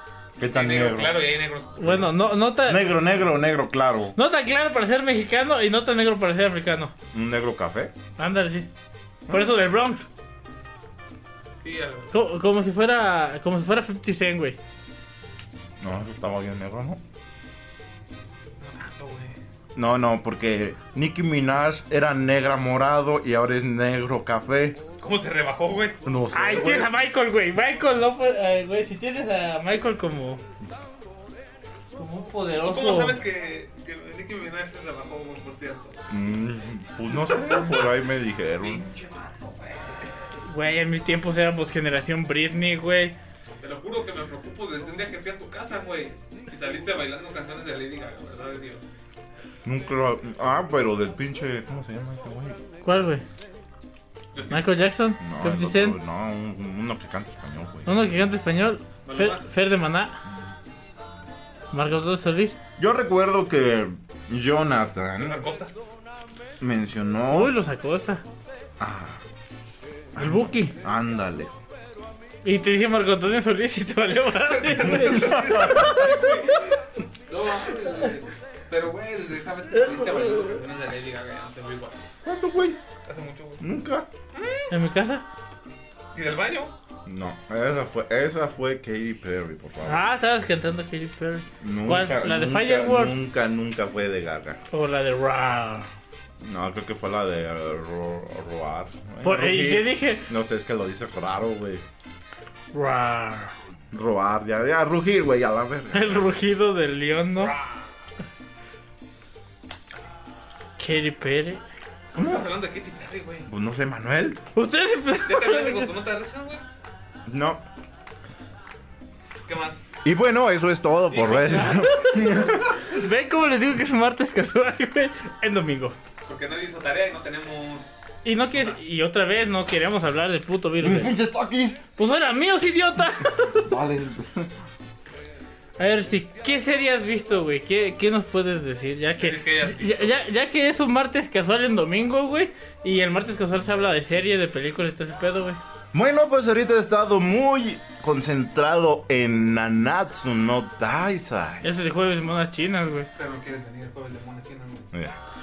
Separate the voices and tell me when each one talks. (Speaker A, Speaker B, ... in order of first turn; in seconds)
Speaker A: 0.4-1.3, 2.6-4.1, 7.1-7.9, 9.3-9.5, 15.8-17.0, 19.7-24.8, 26.0-26.9, 36.1-38.8, 49.6-52.6, 55.2-58.2, 62.8-65.4, 66.6-67.5, 68.8-69.2, 70.1-71.6, 74.8-76.1, 82.2-82.8, 83.6-84.1, 87.0-90.1, 91.6-94.6, 96.4-101.8, 103.9-106.3, 112.2-112.5, 113.5-114.4, 117.3-117.6, 120.0-122.8, 130.8-131.8, 133.5-134.5, 145.9-151.7
Speaker B: 0.4-2.0, 11.6-12.1, 18.6-19.4, 25.0-26.1, 32.6-36.0, 37.1-38.0, 38.6-40.3, 43.6-48.9, 54.3-54.7, 59.0-59.5, 65.2-65.7, 74.5-82.0, 83.0-83.6, 84.3-84.7, 86.1-86.7, 107.4-107.9, 112.1-113.5, 115.2-116.6, 119.5-119.8, 121.1-122.6, 126.2-128.9, 139.2-140.2, 153.2-154.9
Speaker C: 1.8-3.0, 4.2-6.9, 8.2-8.7, 9.3-10.1, 12.1-14.6, 26.3-30.4, 32.0-33.2, 40.4-43.1, 52.8-53.2, 54.5-56.0, 57.9-60.2, 61.7-62.5, 67.3-68.2, 70.2-70.7, 72.4-76.1, 79.8-80.6, 84.7-85.2, 89.8-93.2, 94.7-95.9, 99.2-100.3, 102.7-103.5, 105.9-107.5, 110.8-111.6, 114.5-115.9, 121.7-126.0, 128.2-131.1, 132.0-133.7, 135.8-145.6, 151.6-153.1